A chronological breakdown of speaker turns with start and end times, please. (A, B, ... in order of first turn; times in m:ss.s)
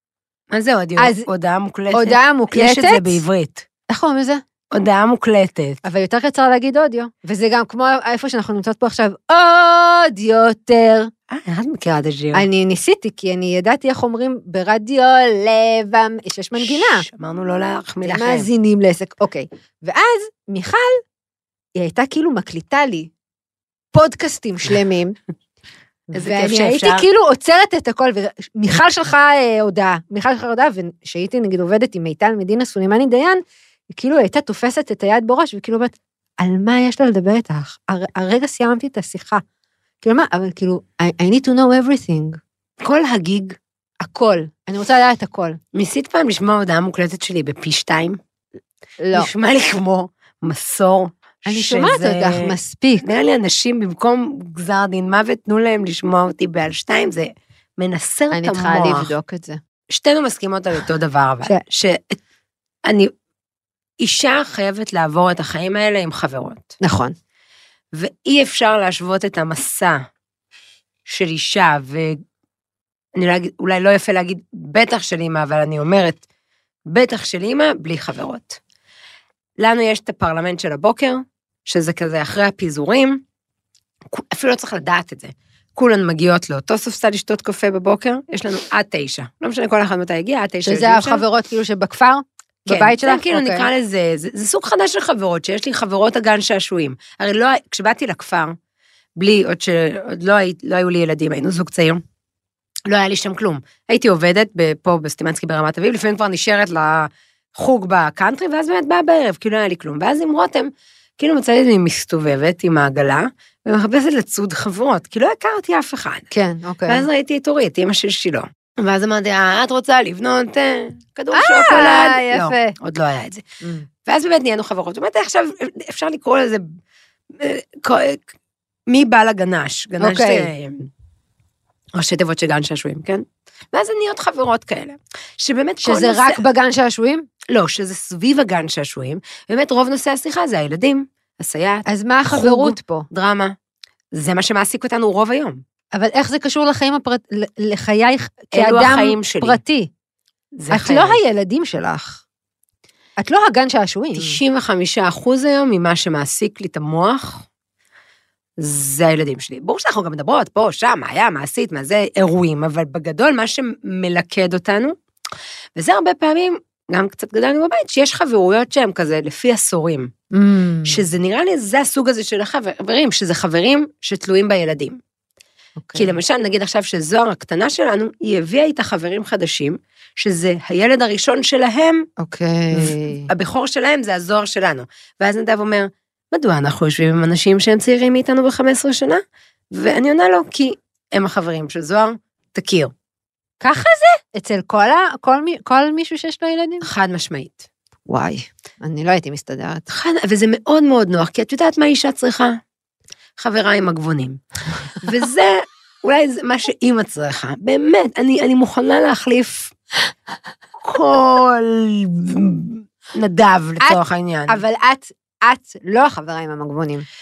0:00.5-0:03.6 A
0:01.0-0:01.3 B
0:01.9-0:03.2 B
0:03.9-0:04.4 B
0:04.7-0:05.8 A
0:05.8-0:11.1 B
0:11.3-0:12.5 A
0:12.3-0:17.0 B
0:16.6-0:18.5 A
0:18.0-0:21.0 B
0:21.8-0:23.1 B
0:23.9-0:25.2 B
0:26.1-0:39.4 B
0:26.1-0:27.1 A
0:40.0-0:42.4 B
0:42.8-0:43.6 A
0:44.0-0:45.6 B
0:45.7-0:48.2 A
0:49.0-0:49.3 B
0:49.1-0:59.1 A
0:51.5-0:53.0 B
0:58.3-0:59.6 B
0:59.9-1:02.2 A
1:02.9-1:03.1 A
1:04.0-1:06.8 A
1:06.8-1:07.2 B
1:07.9-1:10.0 A
1:11.1-1:12.2 A
1:13.2-1:16.2 A
1:16.9-1:18.6 A
1:19.6-1:23.2 A
1:24.1-1:31.2 A
1:30.6-1:33.7 B
1:32.7-1:38.6 A
1:39.2-1:42.0 A
1:42.9-1:56.3 A
1:56.3-1:57.1 B
1:56.9-2:03.4 A
2:01.3-2:02.8 B
2:03.6-2:03.9 B
2:04.1-2:06.8 A
2:07.3-2:08.2 A
2:08.9-2:10.9 A
2:10.0-2:10.5 B
2:12.0-2:16.4 A
2:15.8-2:17.3 B
2:17.5-2:23.6 A
2:21.9-2:23.1 B
2:24.2-2:25.6 A
2:25.9-2:29.9 B
2:28.5-2:29.6 A
2:30.6-2:31.2 A
2:30.7-2:32.2 B
2:33.2-2:34.4 B
2:34.2-2:37.5 A
2:38.6-2:45.0 A
2:45.8-2:50.1 A
2:50.3-2:51.0 B
2:50.9-2:55.0 A
2:55.8-2:56.1 B
2:56.0-3:02.1 A
3:02.2-3:03.3 B
3:02.7-3:12.9 A
3:13.6-3:16.9 B
3:16.8-3:17.7 A
3:18.1-3:19.9 B
3:19.9-3:22.6 A
3:23.4-3:24.4 A
3:25.0-3:29.7 A
3:30.8-3:34.6 A
3:33.8-3:37.1 B